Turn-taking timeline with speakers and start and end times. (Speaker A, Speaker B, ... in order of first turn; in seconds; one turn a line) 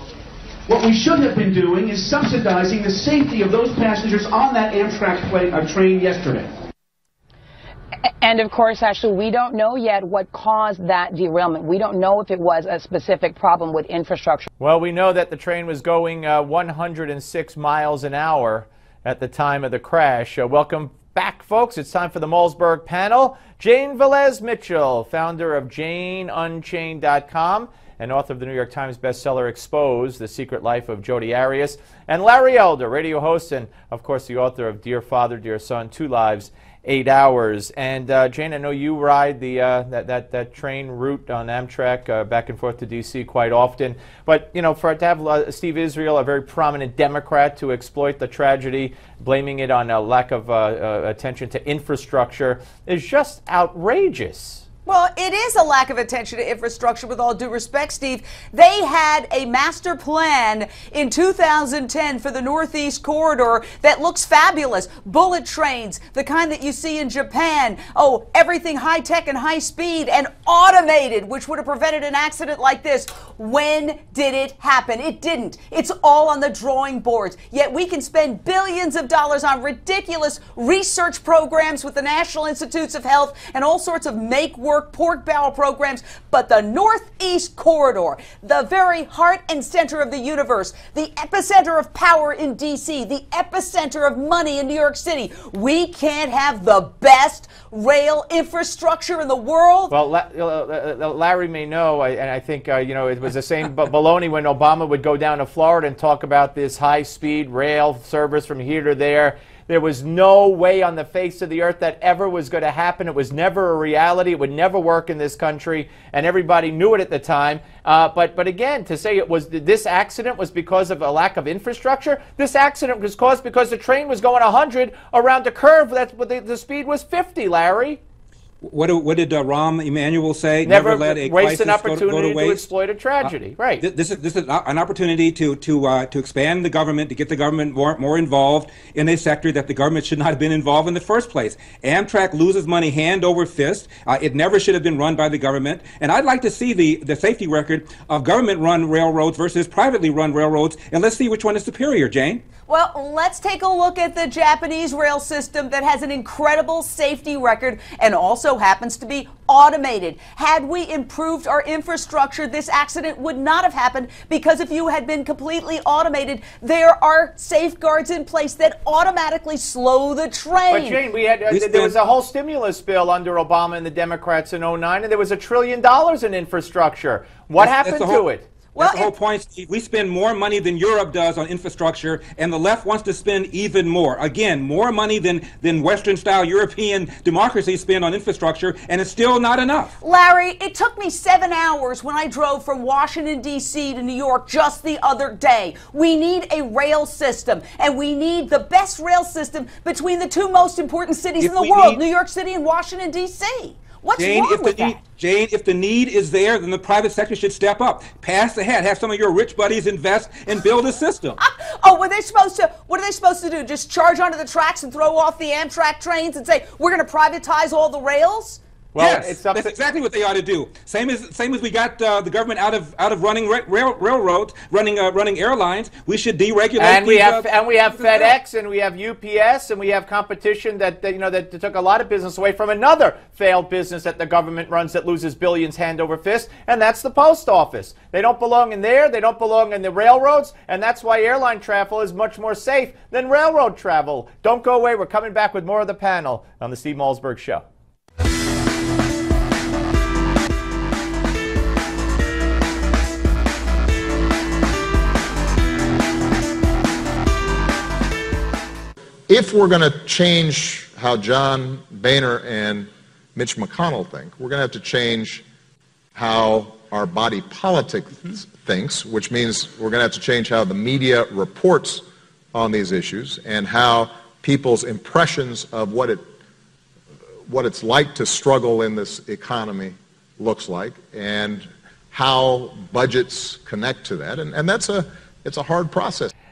Speaker A: 0.7-6.5
Speaker B: 8.2-14.5
Speaker C: 14.6-54.6
Speaker D: 54.9-99.9
Speaker C: 99.9-128.0
Speaker E: 128.6-132.7
Speaker C: 130.6-133.8
Speaker E: 133.2-152.4
Speaker D: 152.7-171.0
Speaker C: 170.7-178.5
Speaker E: 171.5-171.9
Speaker E: 177.6-178.2
Speaker D: 178.7-179.1
Speaker E: 178.8-189.9
Speaker D: 190.0-205.0
Speaker E: 201.4-202.0
Speaker E: 204.2-211.4
Speaker D: 211.4-218.6
Speaker C: 218.9-219.7
Speaker E: 219.0-228.3
Speaker C: 226.8-247.6
Speaker F: 259.3-265.4
Speaker F: 266.1-276.2
Speaker F: 277.5-286.3